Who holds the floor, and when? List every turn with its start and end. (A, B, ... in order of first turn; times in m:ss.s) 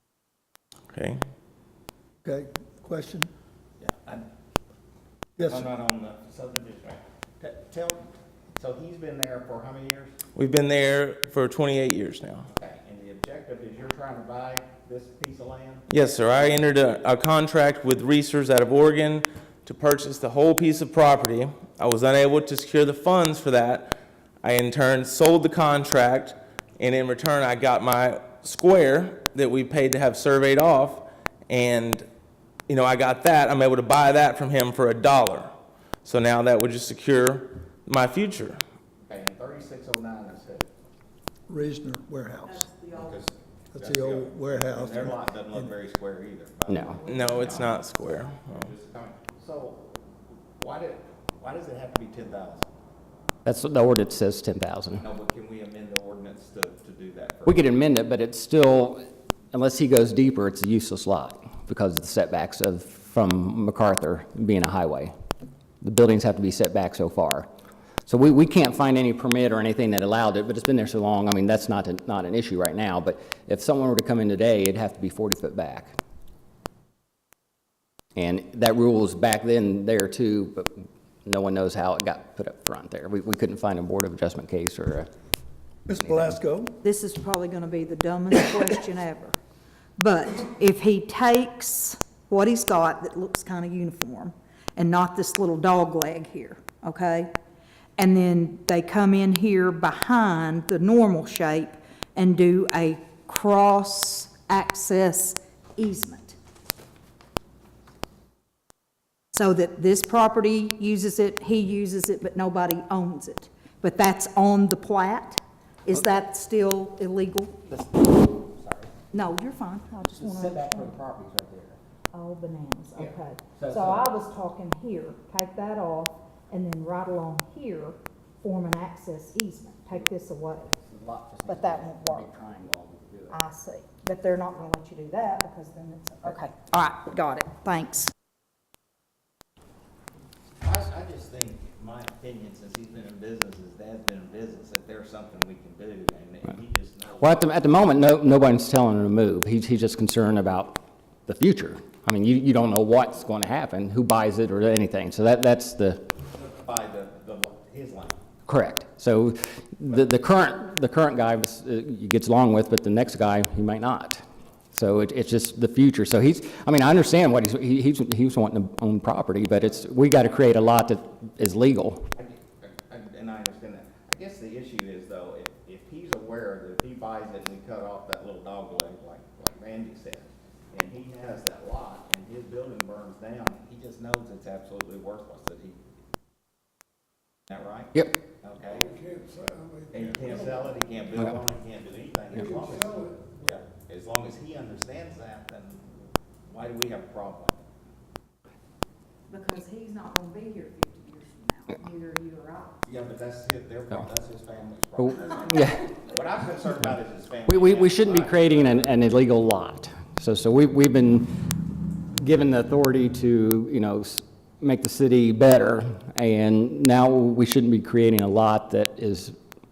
0:00.9-0:01.2 A
0:02.2-0:03.3 B
0:03.8-0:04.2 C
0:05.4-0:05.7 B
0:05.4-0:10.1 C
0:10.4-0:12.5 A
0:12.5-0:16.7 C
0:15.9-0:32.0 A
0:32.7-0:35.5 A
0:36.0-0:38.6 A
0:39.1-0:40.7 C
0:41.5-0:42.6 B
0:42.4-0:43.2 D
0:42.9-0:49.9 C
0:43.7-0:45.7 B
0:46.7-0:47.0 E
0:47.0-0:47.8 D
0:47.1-0:48.7 A
0:50.6-0:52.7 C
0:53.4-0:55.0 E
0:55.0-0:57.7 C
0:57.4-1:05.1 E
1:05.8-1:07.5 E
1:08.1-1:15.9 E
1:18.2-1:25.1 E
1:25.9-1:26.8 B
1:25.9-1:26.3 E
1:26.8-1:29.4 D
1:30.0-1:37.3 D
1:38.0-1:46.4 D
1:49.3-1:57.6 D
1:57.7-1:58.9 E
1:59.1-2:01.0 D
2:00.0-2:01.8 E
2:02.1-2:10.7 D
2:03.0-2:04.1 E
2:10.7-2:13.4 E
2:11.4-2:12.3 D
2:13.3-2:18.1 D
2:20.6-2:27.4 C
2:27.2-2:36.1 E
2:36.3-2:38.2 C
2:38.5-2:52.0 E
2:52.1-3:05.8 C
3:07.5-3:09.0 C
3:08.9-3:10.3 B
3:09.9-3:15.8 C
3:12.4-3:13.3 B
3:16.5-3:17.6 C
3:19.3-3:22.8 D
3:22.8-3:28.9 C
3:25.0-3:25.8 E
3:27.5-3:31.4 E
3:32.2-3:39.4 E